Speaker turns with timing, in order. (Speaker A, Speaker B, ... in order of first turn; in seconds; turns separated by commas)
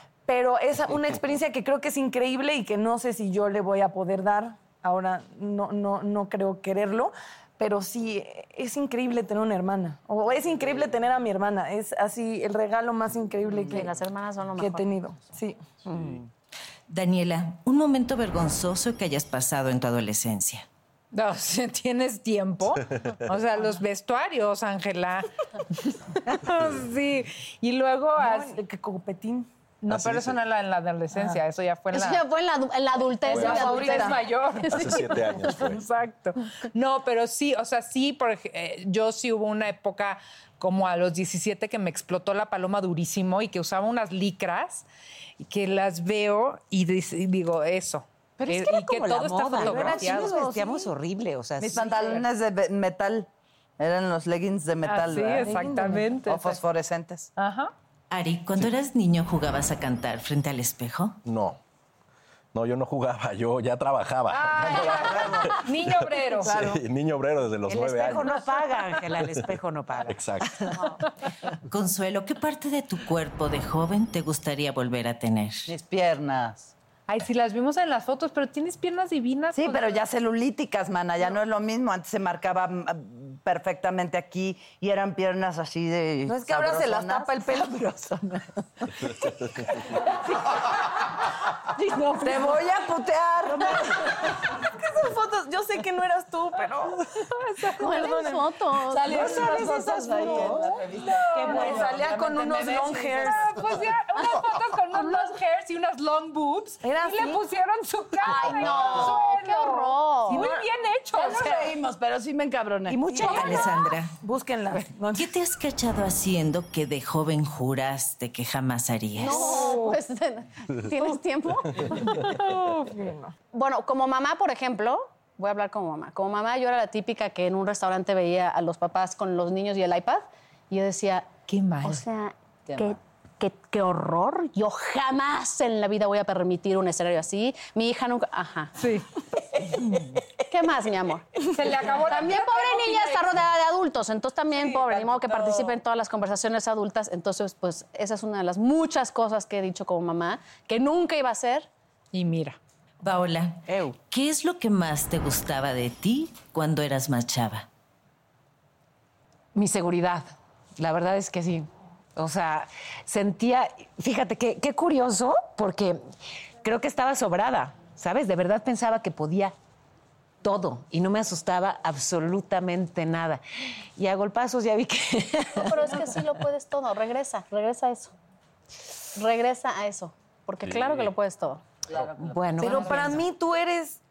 Speaker A: 0.3-14.0, Speaker B: 13.7-14.9, Speaker A: 14.6-15.6, Speaker C: 15.8-16.2, Speaker D: 16.9-20.6, Speaker E: 21.1-28.6, Speaker A: 28.2-29.5, Speaker E: 29.8-32.2, Speaker C: 29.9-30.4, Speaker A: 31.1-31.4, Speaker B: 31.9-35.6, Speaker E: 33.2-44.9, Speaker A: 33.3-34.2, Speaker C: 34.6-35.8, Speaker E: 45.4-50.6, Speaker F: 48.4-51.8, Speaker G: 49.6-50.4, Speaker A: 49.7-50.6, Speaker G: 51.6-55.6, Speaker E: 51.8-52.2, Speaker E: 54.8-56.6, Speaker A: 55.2-56.1, Speaker G: 56.2-57.3, Speaker E: 57.4-57.7, Speaker D: 58.1-61.2, Speaker C: 61.2-61.6, Speaker C: 62.5-68.3, Speaker E: 64.3-66.7, Speaker G: 64.7-65.5, Speaker A: 66.4-66.8, Speaker F: 67.7-70.8, Speaker E: 68.1-69.0, Speaker C: 70.0-70.7, Speaker D: 71.7-75.7, Speaker G: 75.7-76.7, Speaker E: 77.1-80.0, Speaker G: 79.5-87.5, Speaker A: 86.3-90.8, Speaker A: 91.7-92.6, Speaker G: 92.2-94.3, Speaker A: 93.7-97.1, Speaker E: 97.4-98.5, Speaker B: 97.8-99.3, Speaker G: 98.9-103.5, Speaker F: 99.1-100.6, Speaker E: 99.1-99.5, Speaker A: 99.2-99.6, Speaker A: 100.2-100.7, Speaker E: 101.0-101.8, Speaker A: 101.3-103.6, Speaker F: 101.4-101.9, Speaker E: 102.6-111.7, Speaker A: 106.8-107.4, Speaker B: 108.2-110.4, Speaker A: 110.3-110.7, Speaker G: 111.1-113.7, Speaker F: 112.9-113.7, Speaker A: 113.2-115.3, Speaker D: 113.5-114.1, Speaker D: 115.1-119.4, Speaker B: 119.2-122.3, Speaker E: 119.4-120.0, Speaker A: 119.5-119.7, Speaker A: 121.9-123.3, Speaker B: 123.5-131.3, Speaker E: 131.5-132.0, Speaker B: 131.8-138.7, Speaker G: 132.7-133.0, Speaker E: 138.8-139.1, Speaker B: 140.4-151.7, Speaker E: 141.5-143.3, Speaker A: 144.6-145.1, Speaker G: 144.9-145.4, Speaker E: 152.1-152.6, Speaker D: 153.0-157.7, Speaker F: 159.5-166.0, Speaker F: 166.6-169.5, Speaker F: 170.4-173.4, Speaker F: 174.0-176.0, Speaker B: 175.6-178.1, Speaker B: 179.1-181.6, Speaker C: 180.6-181.1, Speaker G: 181.9-183.1, Speaker F: 182.2-183.2, Speaker A: 182.6-184.0